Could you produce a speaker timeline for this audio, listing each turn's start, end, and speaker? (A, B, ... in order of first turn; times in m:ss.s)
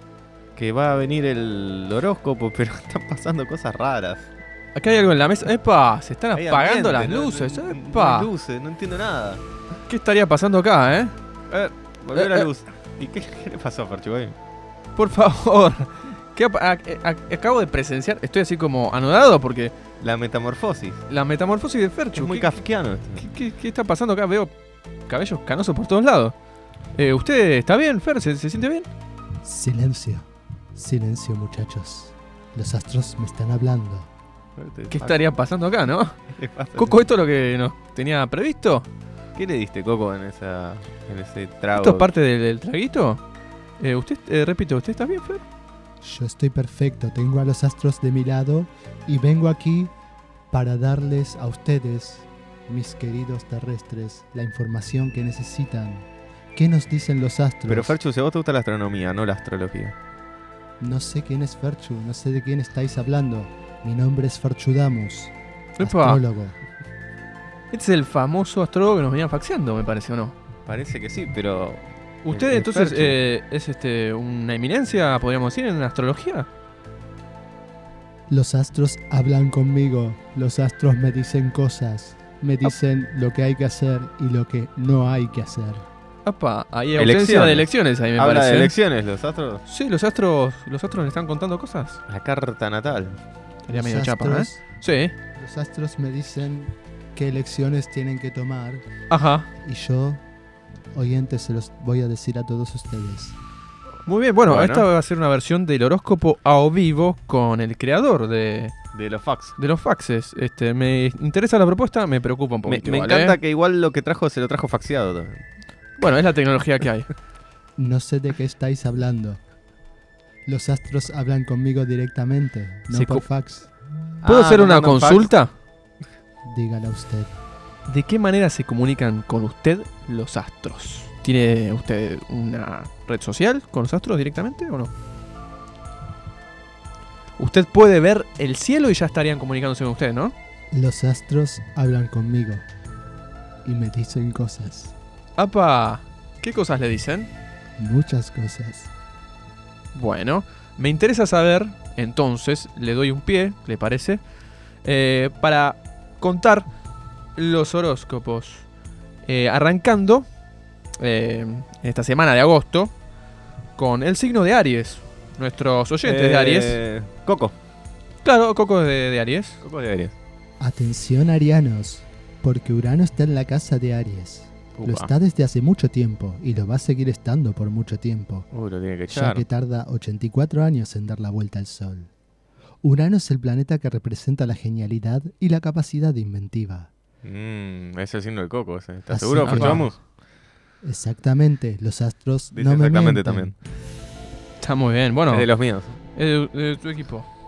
0:00.6-0:04.3 A
0:04.8-0:08.3 B
0:06.4-0:09.4 A
0:09.9-0:11.2 B
0:11.5-0:14.4 A
0:12.2-0:12.5 B
0:15.0-0:19.7 B
0:20.0-0:21.0 A
0:21.1-0:22.6 B
0:22.1-0:23.3 A
0:23.2-0:24.5 B
0:25.1-0:26.4 B
0:27.0-0:28.9 B
0:29.4-0:34.1 C
0:34.6-0:35.2 A
0:34.9-0:36.2 B
0:36.4-0:37.0 A
0:36.7-0:38.9 B
0:39.4-0:42.1 A
0:41.8-0:43.2 B
0:43.8-0:45.4 B
0:46.0-0:49.9 C
0:50.5-0:58.0 C
0:57.7-1:00.0 A
1:00.8-1:06.6 C
1:05.8-1:06.2 B
1:07.7-1:10.4 B
1:10.7-1:13.2 A
1:12.2-1:16.5 B
1:18.3-1:25.9 C
1:26.3-1:28.7 B
1:27.0-1:29.6 A
1:29.7-1:32.0 B
1:32.1-1:33.2 A
1:33.7-1:35.1 B
1:33.7-1:34.6 C
1:35.4-1:38.8 C
1:39.1-1:39.5 B
1:39.6-1:40.2 C
1:40.9-1:43.4 C
1:44.1-1:48.7 B
1:44.5-1:44.9 A
1:48.9-1:49.6 A
1:49.6-1:53.4 B
1:52.7-1:55.4 A
1:56.0-1:57.1 B
1:57.8-1:59.4 C
2:00.5-2:03.7 C
2:02.9-2:03.2 B
2:04.2-2:05.3 A
2:04.2-2:05.5 B
2:06.5-2:07.4 C
2:07.9-2:14.9 B
2:17.4-2:20.3 B
2:20.7-2:22.6 C
2:23.6-2:24.9 C
2:25.4-2:27.3 B
2:27.8-2:28.9 C
2:29.9-2:34.2 B
2:34.8-2:36.7 B
2:37.4-2:38.6 B
2:39.2-2:40.3 B
2:41.0-2:42.9 B
2:43.8-2:46.8 B
2:46.0-2:47.6 A
2:48.2-2:49.6 B
2:49.6-2:50.2 A
2:50.6-2:58.5 C
2:54.8-2:55.1 A
2:58.5-2:59.4 A
2:59.1-3:02.1 C
3:02.8-3:06.9 C
3:07.2-3:10.0 A
3:09.1-3:09.9 C
3:09.4-3:09.9 B
3:10.8-3:13.5 C
3:12.5-3:13.5 A
3:14.6-3:15.5 B
3:15.3-3:16.0 A
3:16.2-3:17.3 B